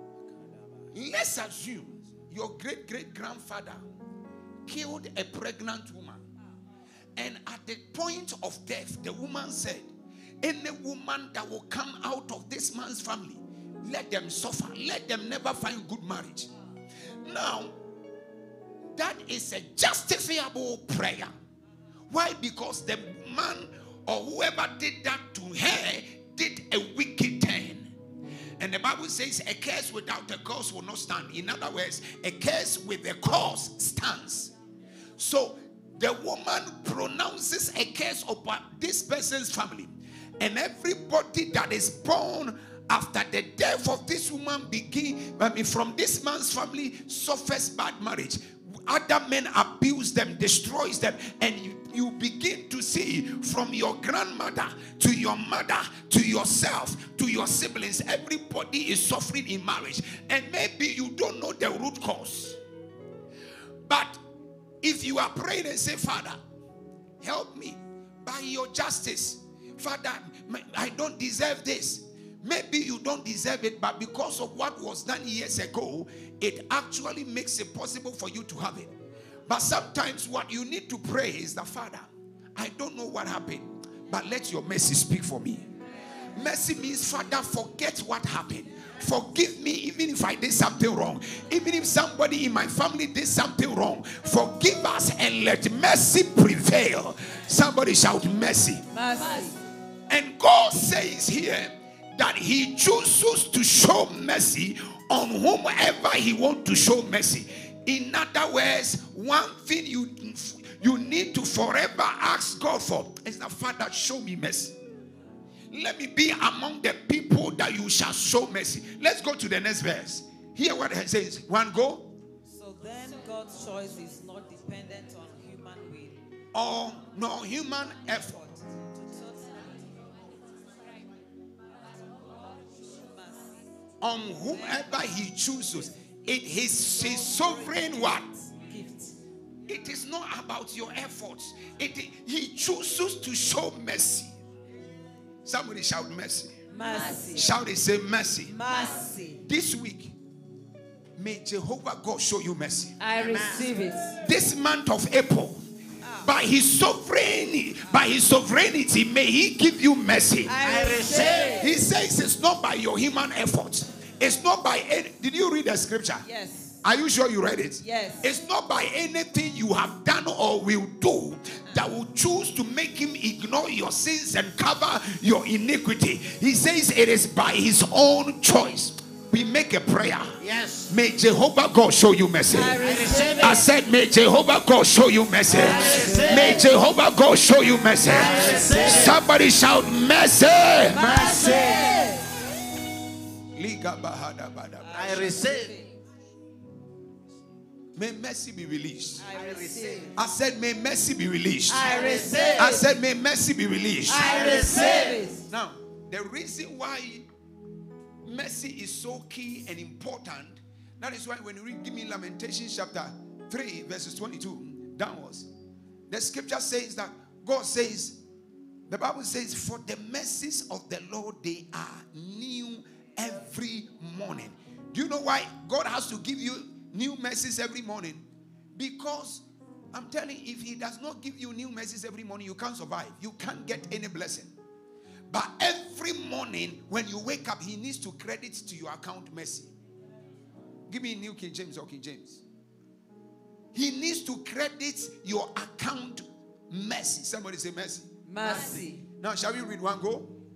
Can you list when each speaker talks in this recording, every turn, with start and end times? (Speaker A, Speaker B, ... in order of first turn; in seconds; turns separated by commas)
Speaker A: 0.9-3.8, Speaker A: 4.6-6.2, Speaker A: 7.2-9.9, Speaker A: 10.4-16.5, Speaker A: 17.2-17.8, Speaker A: 18.9-21.3, Speaker A: 22.1-27.9, Speaker A: 28.6-34.5, Speaker A: 35.2-62.6, Speaker A: 63.9-64.2, Speaker A: 64.8-66.4, Speaker A: 67.2-78.9, Speaker A: 79.5-85.7, Speaker A: 86.3-98.8, Speaker B: 98.9-99.6, Speaker A: 100.1-114.8, Speaker A: 115.7-122.1, Speaker B: 122.5-126.2, Speaker A: 126.5-128.4, Speaker B: 128.0-129.9, Speaker B: 132.0-133.5, Speaker A: 134.0-138.3, Speaker B: 134.5-135.0, Speaker B: 136.7-139.1, Speaker A: 139.7-144.3, Speaker A: 145.4-146.5, Speaker B: 146.7-147.5, Speaker A: 147.3-148.6, Speaker B: 148.4-149.4, Speaker A: 149.4-150.2, Speaker A: 151.2-153.0, Speaker B: 153.0-154.2, Speaker C: 153.2-153.7, Speaker A: 154.2-155.6, Speaker B: 156.0-156.3, Speaker A: 156.2-160.6, Speaker B: 160.4-161.7, Speaker C: 160.6-161.6, Speaker A: 161.6-166.2, Speaker B: 166.2-166.8, Speaker A: 166.8-180.3, Speaker B: 167.8-168.3, Speaker C: 180.4-180.9, Speaker A: 180.9-191.4, Speaker B: 182.5-183.6, Speaker C: 182.8-183.6, Speaker C: 185.6-186.6, Speaker B: 186.0-186.2, Speaker C: 188.1-189.1, Speaker B: 188.3-188.8, Speaker B: 190.9-192.3, Speaker A: 193.5-195.4, Speaker B: 194.8-195.9, Speaker C: 195.0-195.8, Speaker A: 197.9-199.3, Speaker B: 199.2-200.2, Speaker C: 199.3-200.1, Speaker A: 200.1-204.8, Speaker B: 201.7-202.9, Speaker C: 202.0-202.7, Speaker B: 204.1-205.5, Speaker C: 204.3-205.2, Speaker A: 205.5-207.3, Speaker A: 208.2-215.5, Speaker A: 216.1-218.2, Speaker A: 218.9-234.5, Speaker A: 235.3-239.7, Speaker A: 240.9-242.4, Speaker A: 243.7-248.1, Speaker B: 248.2-249.0, Speaker C: 248.5-248.8, Speaker A: 249.1-250.3